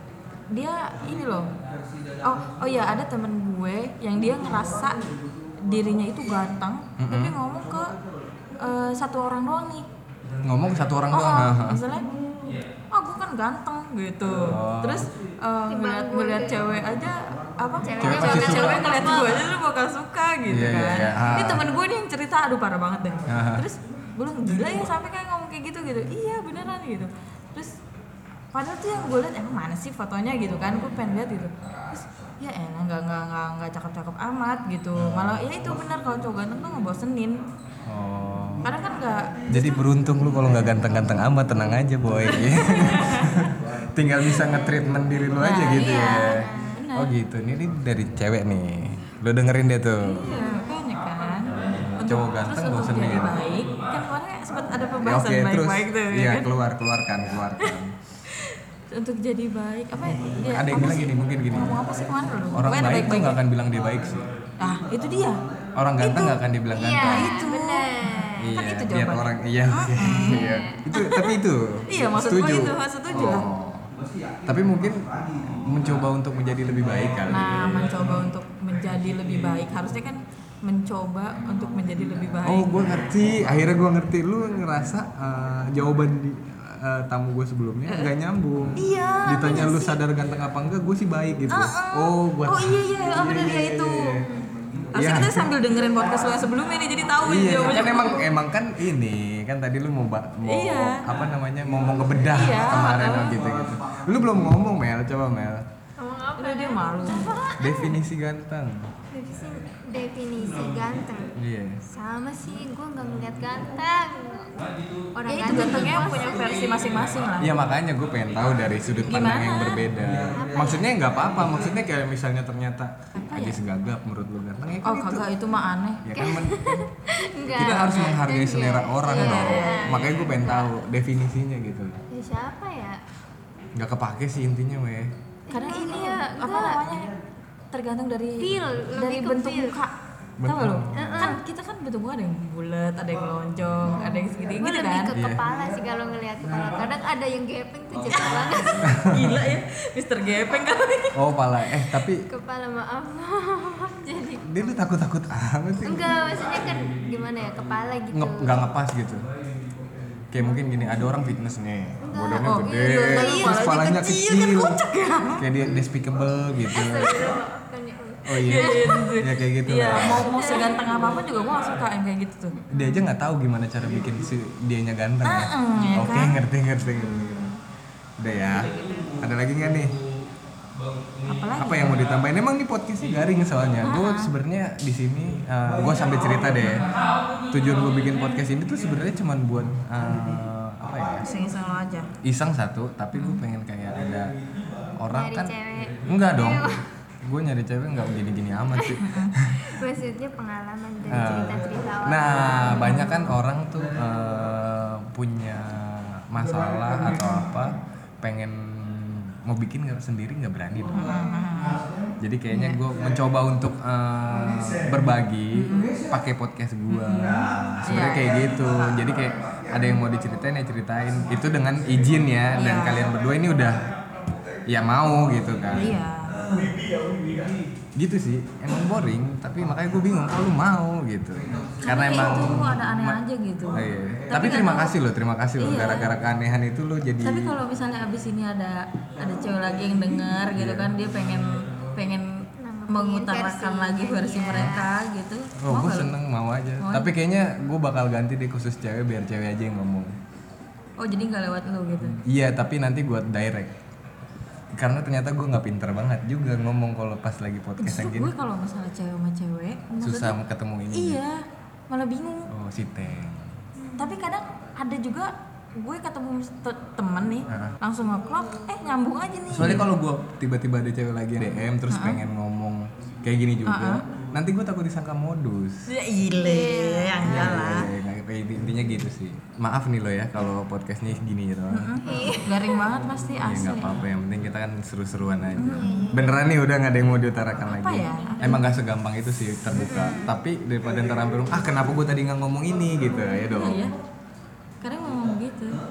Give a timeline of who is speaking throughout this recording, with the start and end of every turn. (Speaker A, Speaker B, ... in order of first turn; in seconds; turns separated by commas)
Speaker A: 0.5-1.5, Speaker A: 2.2-5.0, Speaker A: 5.6-8.0, Speaker B: 7.0-7.4, Speaker A: 8.6-9.9, Speaker B: 10.4-11.8, Speaker A: 11.1-12.1, Speaker A: 12.9-27.8, Speaker B: 14.4-15.1, Speaker C: 15.7-16.6, Speaker C: 17.8-19.4, Speaker B: 18.0-19.0, Speaker B: 20.5-21.6, Speaker B: 23.3-23.7, Speaker A: 28.5-37.4, Speaker B: 35.0-35.4, Speaker B: 37.9-38.7, Speaker A: 38.6-39.8, Speaker B: 39.5-50.2, Speaker A: 42.3-43.5, Speaker A: 45.4-47.1, Speaker C: 45.7-46.8, Speaker A: 50.0-56.5, Speaker C: 50.2-51.4, Speaker B: 51.5-53.4, Speaker B: 55.0-57.9, Speaker A: 58.3-63.4, Speaker B: 60.5-61.8, Speaker B: 62.5-64.3, Speaker A: 64.6-65.4, Speaker B: 65.8-67.3, Speaker A: 66.0-66.4, Speaker C: 66.7-68.5, Speaker A: 67.0-71.4, Speaker B: 68.4-73.9, Speaker C: 70.1-70.8, Speaker A: 71.9-73.5, Speaker B: 74.4-77.9, Speaker A: 77.3-82.7, Speaker B: 82.5-94.3, Speaker A: 88.8-90.0, Speaker A: 91.5-94.2, Speaker A: 95.0-98.3, Speaker B: 95.0-95.5, Speaker B: 97.2-105.7, Speaker A: 100.5-101.1, Speaker A: 102.2-103.4, Speaker C: 106.0-108.0, Speaker A: 106.4-107.4, Speaker B: 107.6-108.9, Speaker C: 109.1-111.3, Speaker B: 111.4-111.8, Speaker C: 111.9-114.6, Speaker C: 115.2-117.0, Speaker A: 115.3-117.5, Speaker B: 117.4-125.3, Speaker A: 119.1-119.9, Speaker C: 120.3-120.9, Speaker A: 123.2-123.6, Speaker A: 124.8-126.4, Speaker B: 126.0-126.8, Speaker C: 126.2-130.7, Speaker B: 127.5-132.0, Speaker A: 127.5-128.2, Speaker A: 129.1-130.6, Speaker C: 132.1-133.0, Speaker B: 133.8-135.1, Speaker C: 135.5-136.8, Speaker A: 135.5-137.1, Speaker A: 137.7-145.1, Speaker C: 138.4-139.8, Speaker B: 140.4-141.4, Speaker C: 140.9-141.4, Speaker C: 144.0-149.0, Speaker B: 145.1-145.4, Speaker B: 148.9-149.4, Speaker A: 149.0-151.2, Speaker B: 151.2-152.3, Speaker C: 152.3-154.6, Speaker B: 154.4-156.1, Speaker C: 155.8-158.7, Speaker B: 158.1-159.3, Speaker B: 160.3-164.8, Speaker C: 162.0-163.9, Speaker A: 162.4-165.4, Speaker B: 165.4-167.4, Speaker C: 166.7-169.1, Speaker B: 168.2-170.4, Speaker A: 168.4-172.6, Speaker C: 169.9-170.9, Speaker C: 172.7-173.0, Speaker B: 172.7-177.5, Speaker A: 175.2-176.4, Speaker C: 176.9-177.6, Speaker B: 178.2-179.9, Speaker C: 178.3-179.1, Speaker A: 181.2-182.1, Speaker B: 181.6-187.0, Speaker A: 183.8-184.3, Speaker A: 186.6-187.2, Speaker B: 187.5-191.2, Speaker A: 191.2-192.1, Speaker B: 192.2-194.3, Speaker A: 193.1-193.4, Speaker B: 195.0-195.5, Speaker C: 195.1-196.8, Speaker B: 196.0-199.8, Speaker A: 199.0-199.3, Speaker C: 199.6-203.0, Speaker B: 201.1-211.2, Speaker A: 202.7-203.3, Speaker A: 210.9-211.8, Speaker B: 212.2-223.9, Speaker A: 212.5-212.8, Speaker A: 215.5-216.0, Speaker A: 216.9-218.9, Speaker A: 222.6-223.1, Speaker B: 224.7-225.9, Speaker A: 225.8-226.3, Speaker B: 227.9-233.2, Speaker A: 231.8-234.9, Speaker B: 233.7-237.5, Speaker A: 235.6-236.1, Speaker A: 237.2-242.4, Speaker B: 240.6-240.9, Speaker C: 242.6-244.9, Speaker A: 242.9-246.1, Speaker B: 245.6-250.2, Speaker A: 246.8-247.1, Speaker A: 251.0-252.2, Speaker B: 252.2-253.7, Speaker B: 254.8-258.3, Speaker A: 257.8-260.4, Speaker B: 260.0-261.2, Speaker A: 260.9-262.5, Speaker B: 262.5-263.6, Speaker C: 263.8-264.2, Speaker A: 264.0-269.9, Speaker B: 267.5-267.8, Speaker B: 269.5-275.9, Speaker A: 271.9-272.2, Speaker A: 273.6-274.0, Speaker A: 275.9-277.9, Speaker C: 276.4-277.4, Speaker B: 277.2-281.9, Speaker A: 281.7-284.0, Speaker C: 282.0-282.8, Speaker B: 283.4-293.9, Speaker A: 285.6-285.9, Speaker C: 285.8-286.3, Speaker A: 287.6-288.6, Speaker C: 289.8-290.3, Speaker A: 293.5-294.0, Speaker A: 294.8-295.8